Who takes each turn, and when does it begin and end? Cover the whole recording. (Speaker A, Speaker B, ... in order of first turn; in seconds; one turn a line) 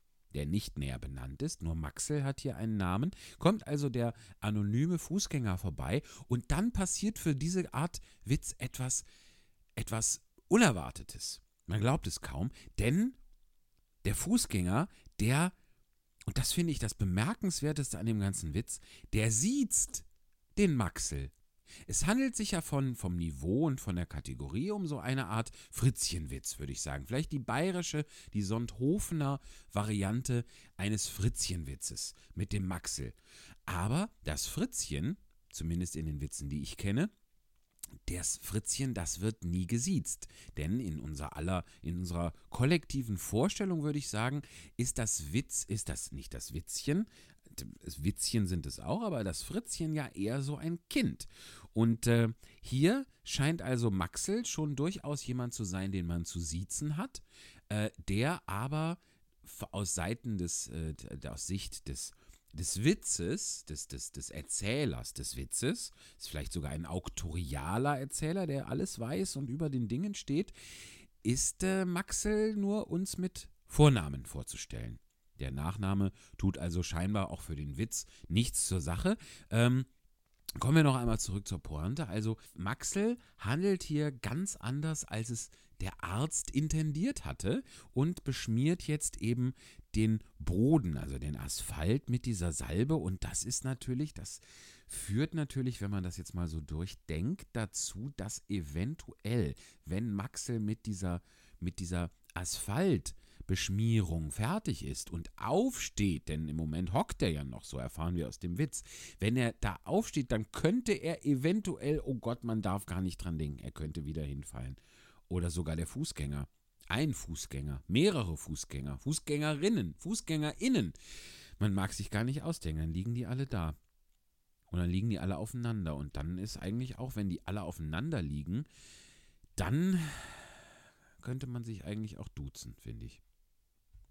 Speaker A: 0.3-9.1
Speaker A: 9.8-13.2
Speaker A: 14.0-15.6
Speaker A: 16.3-21.3
Speaker A: 21.9-37.1
Speaker A: 38.1-70.5
Speaker A: 71.2-79.9
Speaker A: 80.6-121.0
Speaker A: 121.6-123.8
Speaker A: 124.7-128.7
Speaker A: 129.6-130.6
Speaker A: 131.2-133.2